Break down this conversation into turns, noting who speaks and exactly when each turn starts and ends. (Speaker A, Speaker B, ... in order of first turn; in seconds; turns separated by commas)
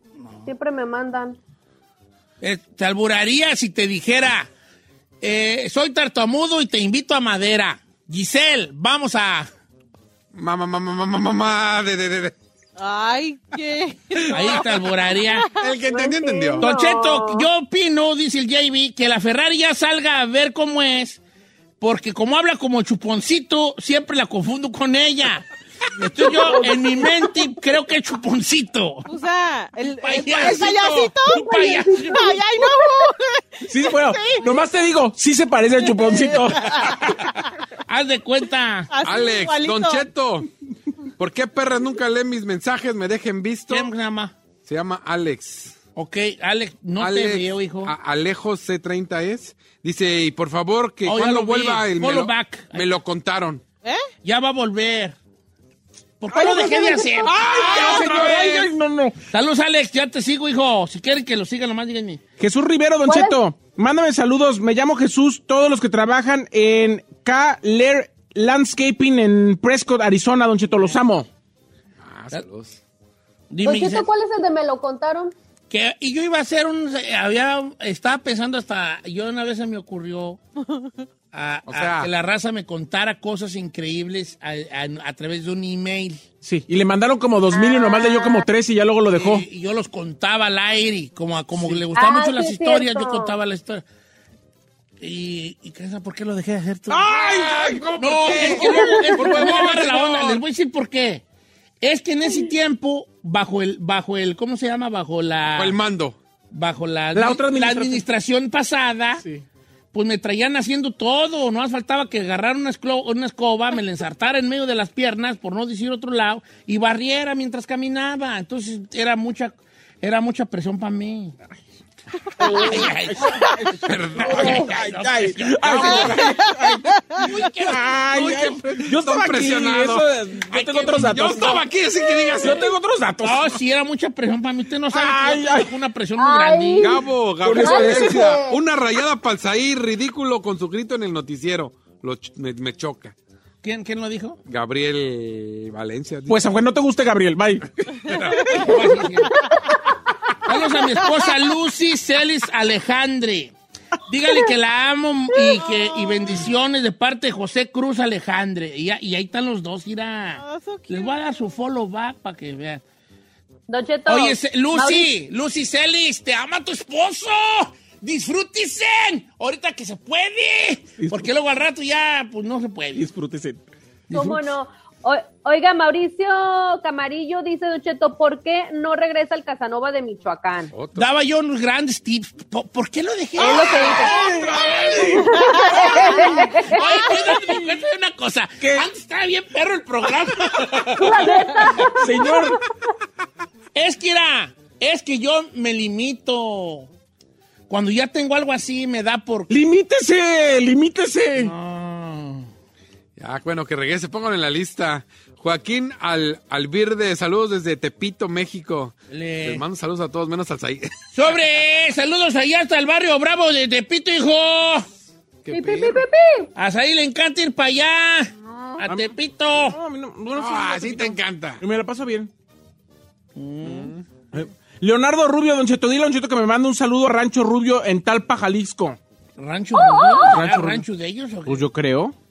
Speaker A: 0.2-0.5, Speaker B: 0.5-1.4, Speaker A: 2.4-4.5, Speaker A: 5.2-9.5, Speaker C: 10.3-12.3, Speaker D: 12.8-15.6, Speaker A: 14.3-15.5, Speaker C: 15.5-16.7, Speaker B: 15.8-17.5, Speaker A: 16.6-21.2, Speaker A: 21.8-29.1, Speaker B: 26.2-27.3, Speaker D: 29.1-34.7, Speaker A: 30.0-32.4, Speaker B: 31.3-33.0, Speaker E: 33.7-36.8, Speaker D: 35.8-37.5, Speaker A: 37.9-38.9, Speaker D: 38.9-40.1, Speaker C: 39.0-40.5, Speaker C: 41.2-43.9, Speaker A: 43.7-44.3, Speaker C: 44.6-45.8, Speaker A: 46.0-47.9, Speaker C: 47.0-53.6, Speaker A: 51.0-52.9, Speaker A: 54.2-55.1, Speaker A: 56.2-58.6, Speaker E: 56.3-59.2, Speaker B: 56.4-57.2, Speaker C: 57.3-58.7, Speaker A: 59.3-62.2, Speaker E: 62.4-71.3, Speaker B: 63.0-63.4, Speaker C: 72.0-72.8, Speaker A: 73.5-74.1, Speaker B: 73.6-75.3, Speaker A: 75.7-80.4, Speaker D: 80.7-80.9, Speaker A: 81.3-86.2, Speaker C: 81.7-82.1, Speaker E: 86.4-89.5, Speaker B: 87.5-88.5, Speaker A: 89.1-93.8, Speaker B: 91.9-93.3, Speaker A: 95.0-97.0, Speaker E: 96.9-97.8, Speaker C: 97.1-100.4, Speaker A: 98.0-101.2, Speaker B: 98.8-99.5, Speaker A: 101.8-105.8, Speaker C: 105.5-106.2, Speaker A: 106.5-109.2, Speaker E: 107.1-108.0, Speaker E: 109.2-109.4, Speaker A: 109.9-121.3, Speaker E: 122.4-131.6, Speaker B: 122.4-122.7, Speaker A: 122.5-126.2, Speaker C: 123.8-125.0, Speaker C: 125.6-126.4, Speaker A: 127.2-128.6, Speaker C: 128.1-132.7, Speaker A: 130.5-131.5, Speaker B: 132.0-132.4, Speaker E: 132.4-133.6, Speaker A: 133.2-137.0, Speaker E: 134.9-135.7, Speaker B: 136.2-138.6, Speaker C: 136.8-143.1, Speaker E: 137.4-138.4, Speaker A: 143.6-144.4, Speaker C: 144.4-146.4, Speaker E: 146.3-147.7, Speaker C: 147.9-148.5, Speaker A: 148.5-149.4, Speaker A: 150.4-153.5, Speaker A: 154.1-162.8, Speaker B: 155.5-156.2, Speaker D: 160.4-161.1, Speaker B: 163.7-165.1, Speaker A: 164.1-173.1, Speaker E: 171.0-171.3, Speaker E: 172.9-173.7, Speaker A: 174.1-174.5, Speaker B: 174.1-180.7, Speaker C: 180.7-181.1, Speaker A: 180.9-185.0, Speaker B: 183.4-184.3, Speaker E: 183.4-185.5, Speaker B: 185.2-187.6, Speaker A: 185.8-191.8, Speaker E: 188.6-188.9, Speaker B: 190.9-192.4, Speaker E: 192.0-192.6, Speaker A: 193.7-196.9, Speaker A: 197.7-199.5, Speaker E: 199.5-201.5, Speaker A: 201.4-202.5, Speaker C: 203.2-211.3, Speaker A: 209.1-209.6, Speaker A: 211.1-214.9, Speaker C: 215.4-216.0, Speaker B: 215.5-216.5, Speaker A: 216.5-219.8, Speaker C: 218.4-218.8, Speaker E: 218.8-222.3, Speaker C: 220.3-221.6, Speaker A: 223.3-223.9, Speaker C: 223.6-224.0, Speaker E: 224.3-229.0, Speaker A: 229.4-231.7, Speaker B: 229.7-230.3, Speaker E: 230.2-230.8, Speaker E: 231.4-232.1